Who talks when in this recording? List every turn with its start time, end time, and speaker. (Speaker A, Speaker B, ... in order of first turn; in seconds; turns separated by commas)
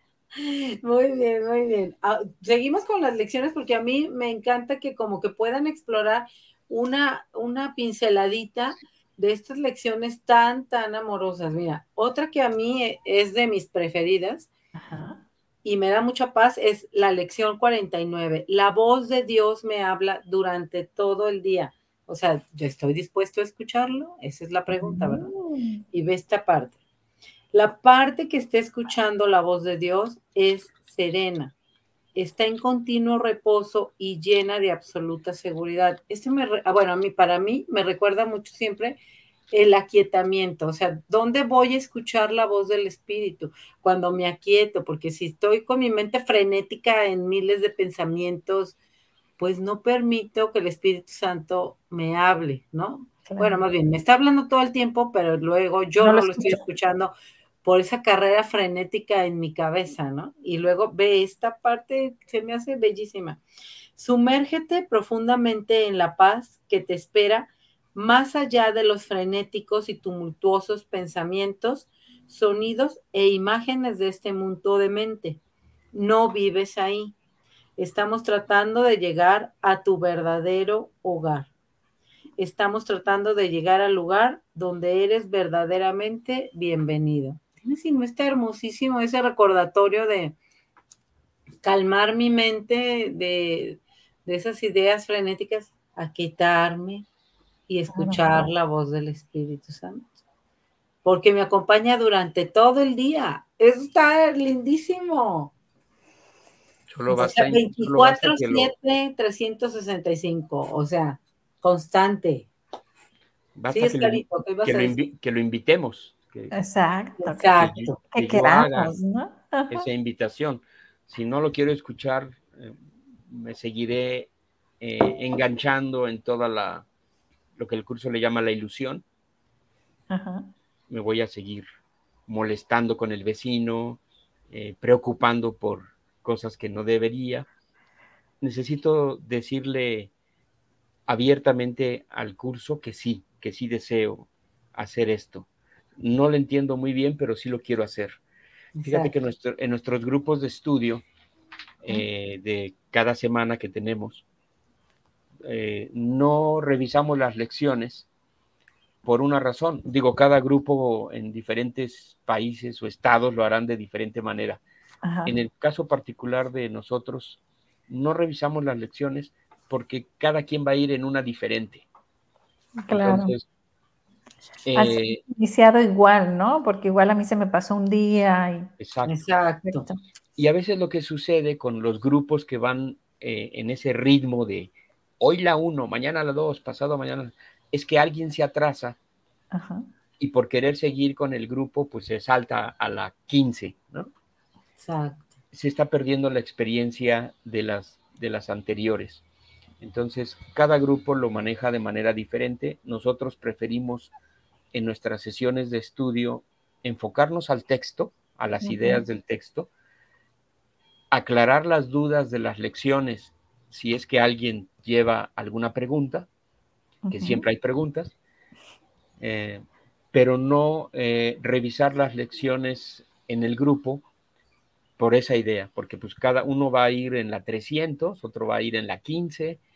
Speaker A: 0.3-14.5, Speaker B: 14.8-15.2, Speaker A: 15.6-25.3, Speaker B: 24.7-25.8, Speaker A: 25.9-26.7, Speaker A: 27.5-31.6, Speaker A: 32.1-39.0, Speaker A: 39.5-48.8, Speaker A: 49.4-57.1, Speaker B: 53.3-53.6, Speaker B: 56.0-56.6, Speaker A: 57.6-63.4, Speaker A: 64.0-75.4, Speaker A: 75.9-77.1, Speaker A: 77.8-81.5, Speaker A: 82.4-90.4, Speaker A: 91.6-97.0, Speaker A: 97.7-100.1, Speaker B: 97.9-98.5, Speaker A: 101.0-105.5, Speaker C: 106.9-108.7, Speaker B: 107.1-107.3, Speaker A: 107.2-112.5, Speaker C: 113.5-116.5, Speaker A: 113.7-115.0, Speaker B: 116.5-117.5, Speaker A: 117.2-118.0, Speaker C: 117.6-118.9, Speaker B: 118.1-119.9, Speaker C: 119.7-126.9, Speaker C: 127.5-129.0, Speaker B: 130.1-130.5, Speaker C: 130.9-131.6, Speaker C: 132.3-137.5, Speaker C: 138.4-140.1, Speaker C: 141.1-145.5, Speaker C: 146.0-148.2, Speaker A: 148.8-149.1, Speaker C: 148.9-151.1, Speaker C: 151.8-154.2, Speaker C: 155.4-158.1, Speaker C: 159.0-164.6, Speaker B: 165.1-165.4, Speaker C: 165.3-171.9, Speaker B: 172.8-173.3, Speaker C: 172.9-173.4, Speaker C: 174.6-175.2, Speaker B: 174.7-178.7, Speaker C: 178.8-179.2, Speaker A: 179.1-179.9, Speaker B: 179.7-180.0, Speaker C: 180.4-189.0, Speaker B: 189.5-189.9, Speaker C: 190.2-194.1, Speaker A: 194.8-195.3, Speaker C: 195.5-199.2, Speaker C: 199.8-204.1, Speaker C: 204.7-209.7, Speaker B: 208.6-209.0, Speaker C: 211.1-216.3, Speaker B: 217.1-217.4, Speaker C: 217.1-218.1, Speaker C: 219.2-224.1, Speaker C: 225.0-229.6